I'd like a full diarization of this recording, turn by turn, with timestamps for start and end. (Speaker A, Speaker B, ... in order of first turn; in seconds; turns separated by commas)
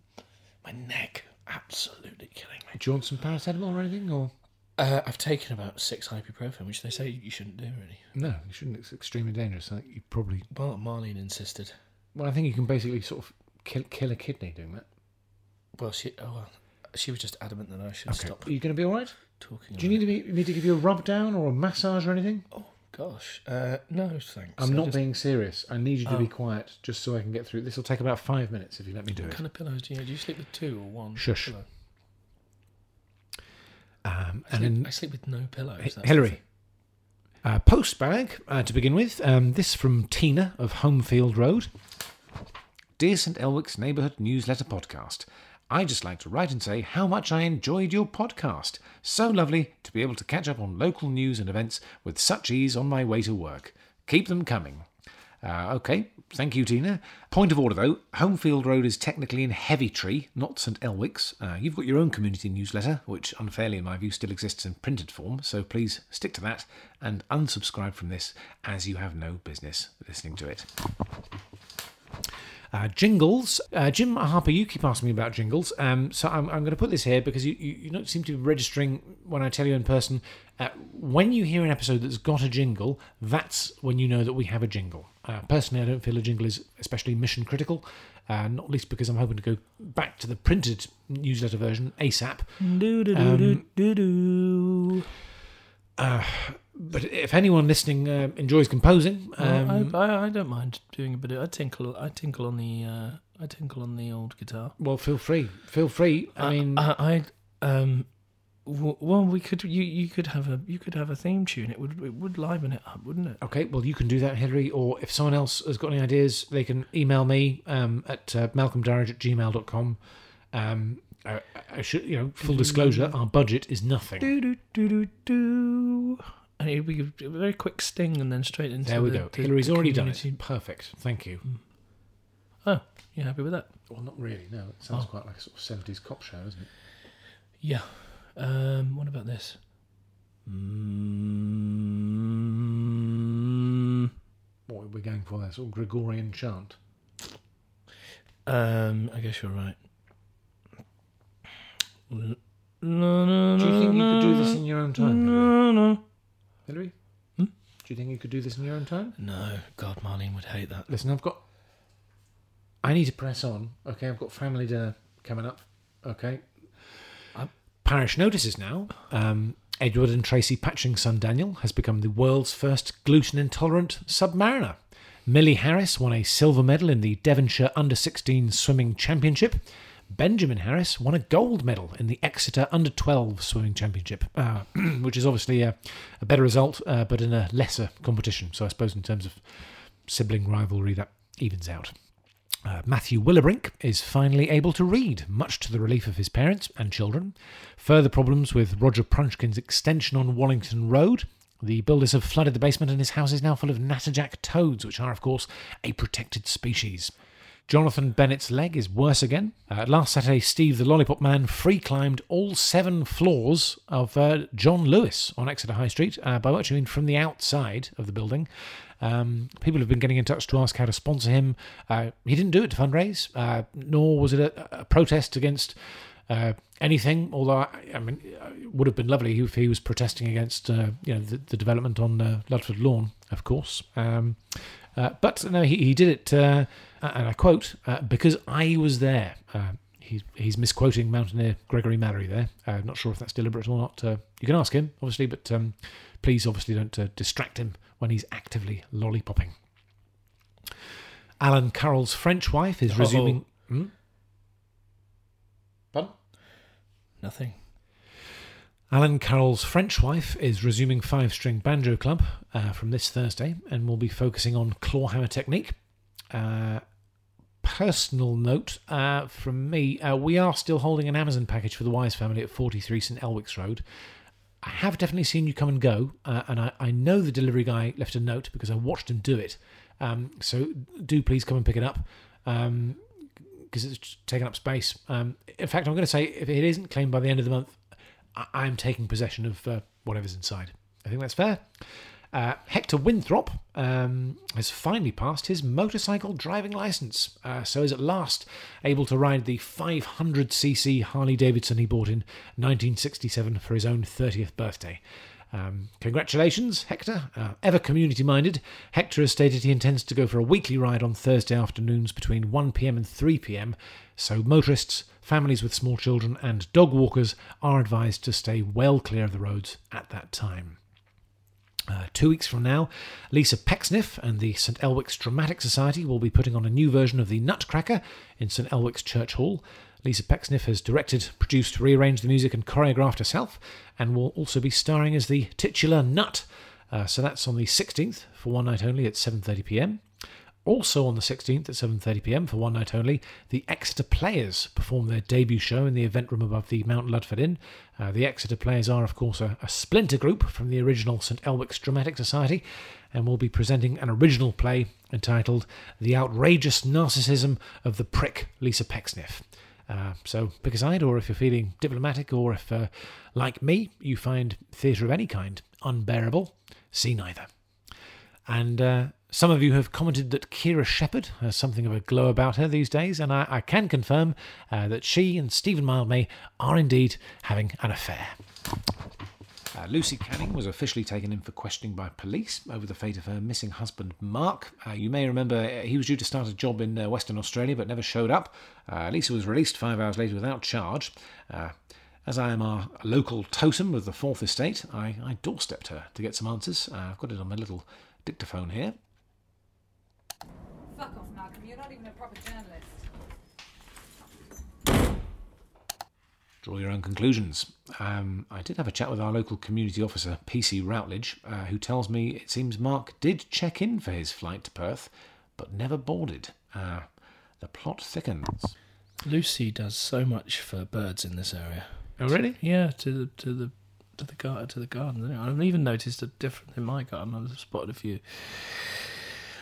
Speaker A: 0.6-2.8, Speaker B: 2.7-4.3, Speaker A: 4.8-8.1, Speaker B: 8.2-10.5, Speaker A: 10.5-11.8, Speaker B: 12.1-14.9, Speaker A: 15.8-18.5, Speaker B: 18.1-19.2, Speaker A: 19.3-20.1, Speaker B: 19.7-22.5, Speaker A: 22.5-25.0, Speaker B: 24.6-29.4, Speaker A: 26.1-26.3, Speaker A: 29.1-31.7, Speaker B: 31.1-31.5, Speaker B: 34.0-34.9, Speaker A: 34.5-36.4, Speaker B: 35.8-36.4, Speaker B: 37.4-41.7, Speaker B: 43.0-54.9, Speaker B: 55.4-70.7, Speaker B: 72.7-93.6, Speaker A: 92.6-95.1, Speaker B: 96.0-100.0, Speaker A: 99.4-104.8, Speaker B: 104.8-106.9, Speaker A: 106.4-108.1, Speaker A: 108.7-113.4, Speaker B: 113.4-120.0, Speaker B: 120.5-124.3, Speaker A: 122.4-123.2, Speaker A: 124.2-130.4, Speaker B: 128.8-131.4, Speaker A: 132.6-133.7, Speaker B: 133.9-136.7, Speaker A: 137.6-139.6, Speaker A: 140.4-144.1, Speaker B: 144.7-146.8, Speaker A: 148.4-149.8, Speaker A: 152.1-156.0, Speaker B: 153.6-155.6, Speaker B: 156.7-156.9, Speaker B: 157.8-159.2, Speaker A: 159.2-160.9, Speaker B: 160.9-161.4, Speaker B: 162.8-166.5, Speaker B: 167.8-191.9, Speaker B: 192.7-207.1, Speaker B: 207.7-249.6, Speaker B: 251.4-253.9, Speaker A: 252.9-253.4, Speaker A: 257.2-257.6, Speaker B: 258.9-265.8, Speaker B: 266.3-266.8, Speaker B: 267.6-273.8, Speaker B: 274.6-283.0, Speaker B: 283.7-287.8, Speaker B: 288.3-320.8, Speaker B: 321.9-340.0, Speaker B: 340.6-367.5, Speaker B: 368.5-378.4, Speaker B: 379.7-399.0, Speaker C: 400.9-403.1, Speaker B: 406.6-418.8, Speaker A: 419.2-429.3, Speaker B: 422.2-422.6